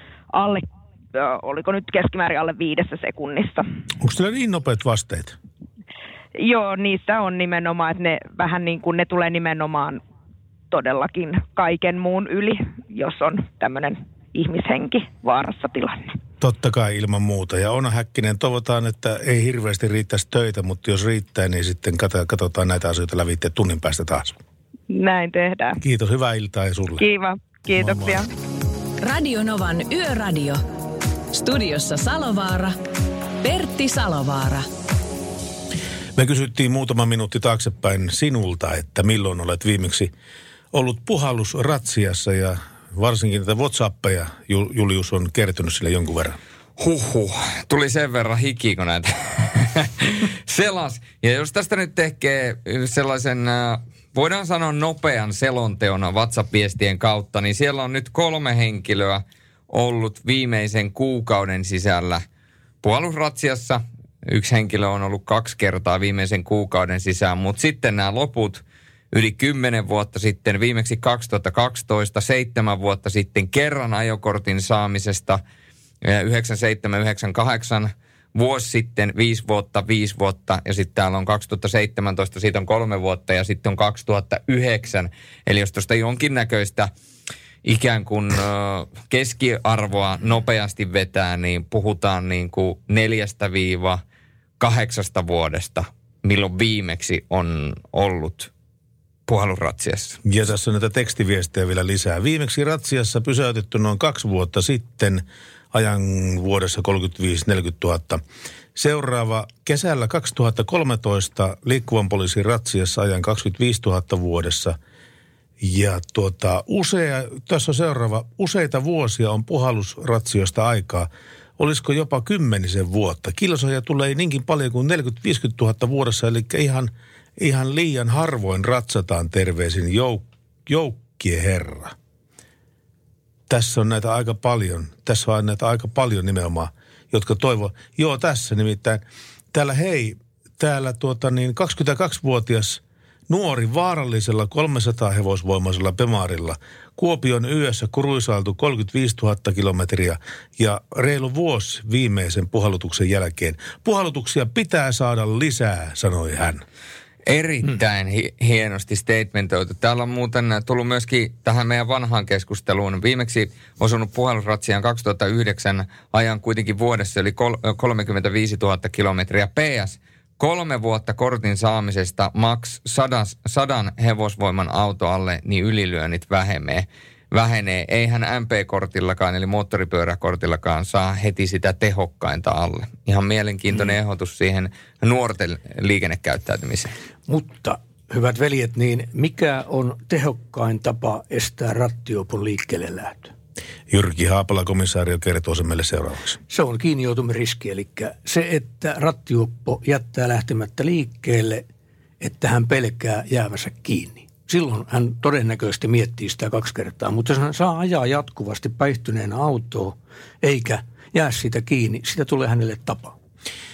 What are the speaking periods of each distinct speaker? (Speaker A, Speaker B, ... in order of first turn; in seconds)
Speaker A: 0.3-3.6, 6.4-10.0, 10.7-16.2, 24.9-25.8, 27.0-28.3
Speaker B: 4.0-5.4, 16.4-24.4, 25.8-27.1, 27.7-28.2, 36.2-40.1, 40.7-46.4, 100.2-108.2, 108.8-114.8, 115.6-131.9, 133.5-156.6, 193.9-196.4
Speaker C: 29.0-30.6, 31.3-32.8, 33.4-34.7
Speaker D: 46.8-62.2, 62.8-75.4, 76.0-86.9, 87.6-94.0, 94.6-98.5, 99.3-100.2, 157.3-186.9
Speaker E: 187.3-193.3, 196.5-201.6, 202.2-213.2